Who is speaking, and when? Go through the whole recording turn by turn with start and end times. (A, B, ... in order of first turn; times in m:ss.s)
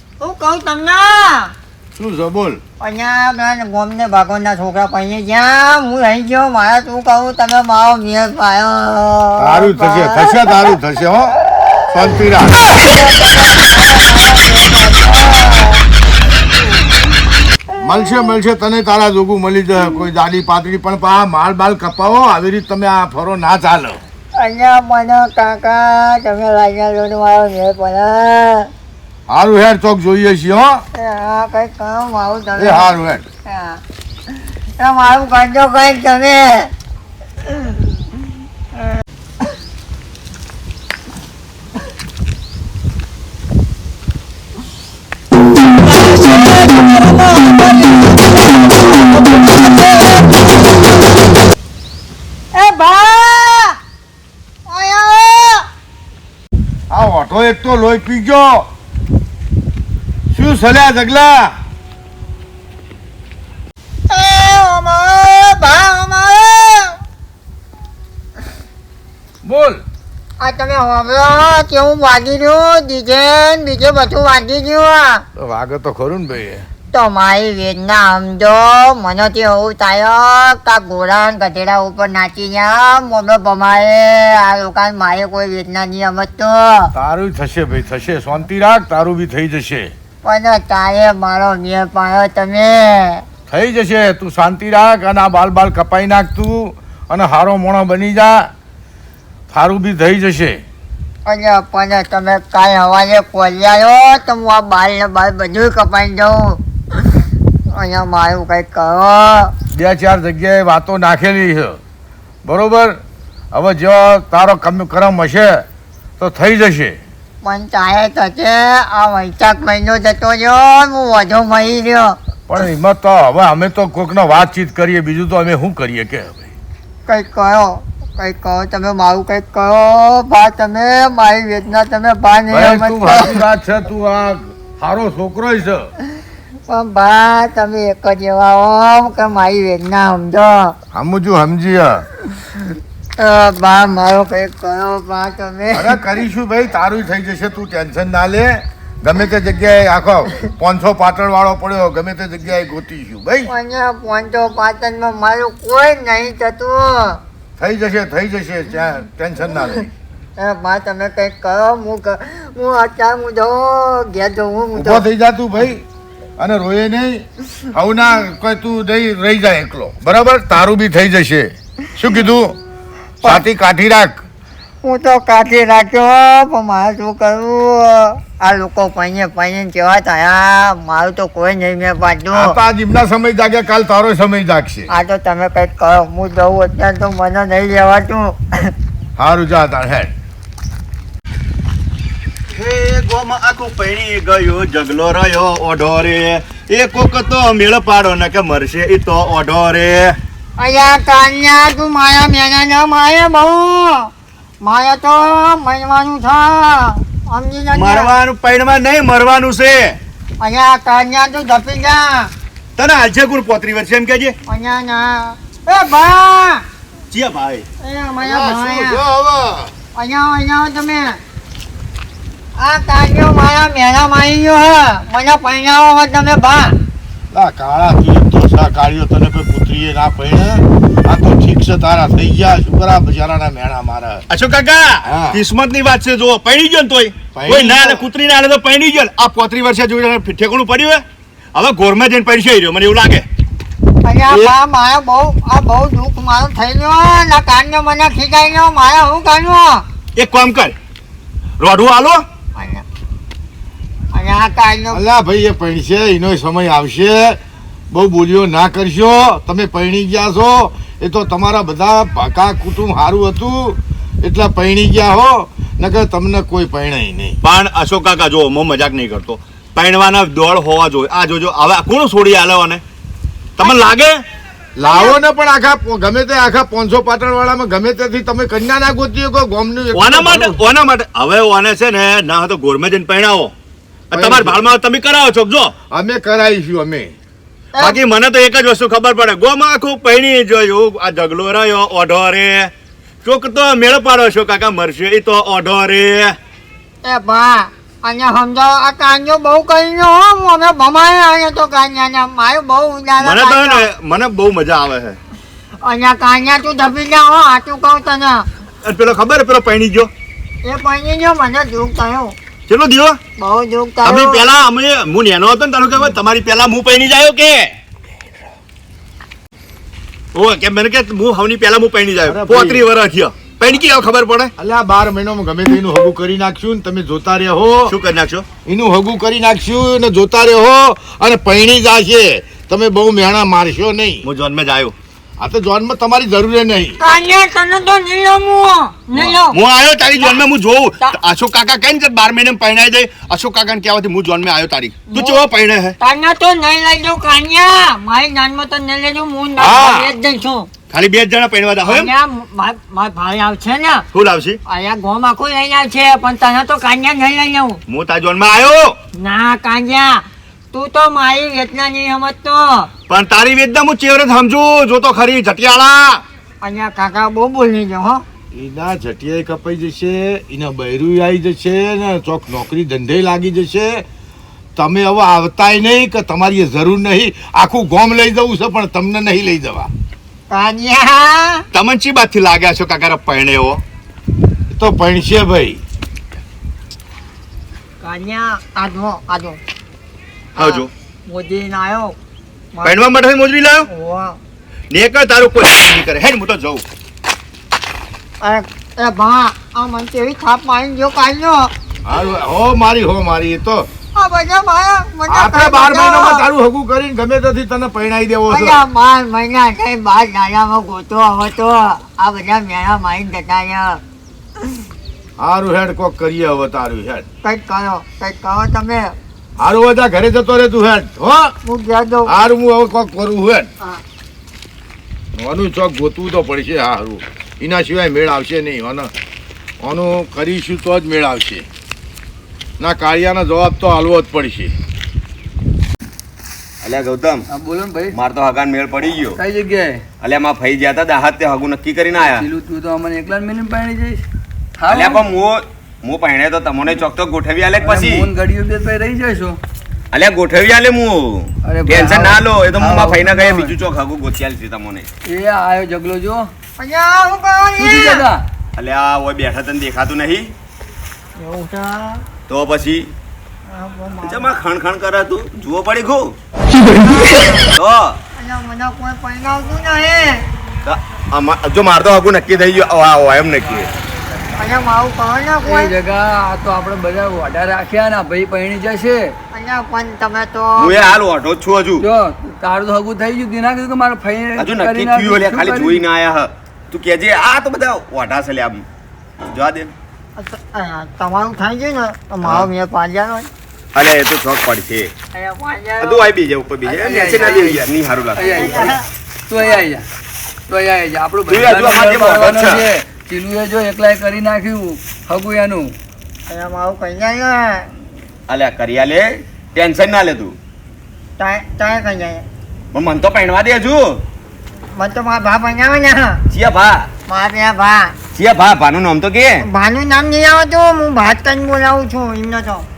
0:00.2-0:01.5 A
0:02.0-0:02.6 B
0:02.8-0:10.4 A
0:09.4-0:11.4 B
0:11.9-0:12.8 B
0:12.7-0:15.8 A
0:17.8-0:24.0 B
0:24.4-0:28.7 A
0:29.3-0:30.8 B
0:31.0-0:32.9 A
0:32.6-0:33.2 B
0:33.5-0:33.8 A
0:34.8-0:36.7 A
0:45.9-0:50.6 A
0:52.6-0:53.8 A
0:54.7-0:55.6 A
0:56.9-0:58.7 B
1:00.3-1:01.5 B
1:04.1-1:07.0 A
1:09.4-1:09.8 B
1:10.4-1:15.2 A
1:15.4-1:16.7 B
1:16.9-1:26.9 A
1:26.9-1:29.9 B
1:30.2-1:33.2 A
1:33.5-1:38.5 B
1:39.5-1:40.6 B
1:41.3-1:46.6 A
1:47.7-1:49.5 A
1:49.7-1:51.8 B
1:52.4-1:53.0 B
1:53.5-1:55.7 B
1:56.2-1:57.0 B
1:57.4-2:02.2 A
2:02.5-2:06.5 B
2:07.1-2:13.4 A
2:12.5-2:15.9 B
2:16.7-2:20.8 A
2:20.9-2:22.0 B
2:23.2-2:26.0 A
2:25.7-2:33.5 B
2:33.5-2:37.2 A
2:37.6-2:39.9 B
2:40.4-2:45.1 A
2:44.7-2:45.8 B
2:46.4-2:52.6 B
2:53.2-2:54.2 B
2:54.8-3:02.6 A
3:02.3-3:04.9 B
3:04.9-3:08.7 A
3:09.2-3:10.1 B
3:12.5-3:20.2 C
3:20.6-3:24.1 A
3:24.6-3:28.1 A
3:27.7-3:30.0 C
3:30.4-3:32.3 A
3:32.8-3:34.4 C
3:34.5-3:36.6 A
3:37.1-3:37.7 C
3:37.8-3:39.0 A
3:38.2-3:39.7 B
3:40.0-3:41.2 A
3:42.6-3:46.8 A
3:47.3-3:54.2 B
3:54.3-4:03.3 C
3:55.0-3:55.4 B
3:57.3-3:58.0 B
4:04.0-4:09.8 A
4:10.2-4:10.8 C
4:11.6-4:12.2 C
4:12.6-4:12.8 A
4:14.1-4:15.0 A
4:14.9-4:17.4 B
4:17.9-4:27.4 B
4:27.4-4:32.8 C
4:33.6-4:34.2 C
4:34.8-4:40.6 B
4:39.9-4:43.5 C
4:44.1-4:44.6 B
4:44.1-4:45.7 C
4:45.9-4:47.1 B
4:47.8-4:52.7 C
4:53.2-4:56.4 C
4:57.0-5:03.8 A
5:03.2-5:05.2 C
5:05.8-5:08.4 A
5:08.8-5:10.1 C
5:10.6-5:12.4 A
5:12.7-5:13.2 C
5:13.4-5:14.5 A
5:14.0-5:17.8 C
5:20.3-5:24.5 C
5:22.2-5:22.8 B
5:24.6-5:28.0 B
5:27.9-5:28.5 C
5:28.7-5:34.2 B
5:34.2-5:34.9 C
5:35.4-5:37.0 B
5:37.0-5:39.6 A
5:39.2-5:46.0 C
5:45.1-5:45.4 A
5:46.0-5:50.7 A
5:49.6-5:50.1 C
5:50.9-5:52.1 C
5:51.8-5:54.0 A
5:54.1-5:54.6 C
5:54.7-5:57.8 A
5:57.9-5:59.0 C
5:59.2-6:02.9 A
6:03.1-6:06.2 C
6:06.6-6:08.2 A
6:08.5-6:14.0 B
6:14.8-6:19.9 B
6:20.5-6:21.7 A
6:21.7-6:23.8 C
6:24.7-6:25.8 B
6:28.0-6:29.6 A
6:30.6-6:30.9 C
6:30.6-6:32.2 A
6:32.7-6:33.0 A
6:32.8-6:33.9 C
6:33.9-6:34.4 A
6:34.9-6:36.8 C
6:38.4-6:41.7 A
6:42.0-6:43.9 B
6:44.2-6:46.4 A
6:45.3-6:48.8 B
6:48.5-6:54.0 A
6:55.4-6:57.3 B
6:57.4-6:59.1 A
6:59.6-7:01.5 B
7:01.6-7:02.3 A
7:02.3-7:03.7 B
7:05.4-7:09.1 B
7:09.8-7:11.6 B
7:12.8-7:14.8 B
7:16.8-7:17.5 D
7:17.5-7:18.2 E
7:18.1-7:19.4 D
7:19.4-7:20.0 E
7:20.2-7:22.5 D
7:22.2-7:24.2 E
7:24.8-7:25.2 E
7:24.9-7:28.3 D
7:27.8-7:29.6 E
7:30.1-7:35.1 D
7:31.7-7:33.8 E
7:35.3-7:36.5 E
7:36.8-7:38.2 A
7:37.8-7:38.4 E
7:38.8-7:40.5 D
7:41.4-7:42.2 A
7:42.5-7:43.1 D
7:43.7-7:44.5 A
7:44.2-7:46.4 D
7:47.0-7:47.5 A
7:47.6-7:48.2 D
7:48.4-7:50.4 A
7:50.8-7:53.9 D
7:54.6-7:55.9 A
7:55.6-7:59.3 E
7:59.5-8:01.0 A
8:00.8-8:02.1 D
8:02.0-8:06.0 E
8:04.6-8:08.8 D
8:09.5-8:09.9 D
8:10.4-8:13.5 A
8:12.4-8:12.7 D
8:14.0-8:15.1 D
8:15.3-8:16.3 A
8:16.0-8:19.0 D
8:16.9-8:17.8 E
8:18.4-8:19.0 E
8:18.4-8:19.0 A
8:19.5-8:20.0 E
8:20.7-8:25.9 E
8:21.5-8:22.9 D
8:26.5-8:27.9 A
8:28.5-8:30.6 D
8:31.4-8:32.4 A
8:32.9-8:34.2 D
8:35.0-8:36.4 A
8:36.5-8:37.1 D
8:37.3-8:38.1 A
8:38.4-8:39.6 D
8:39.6-8:42.8 A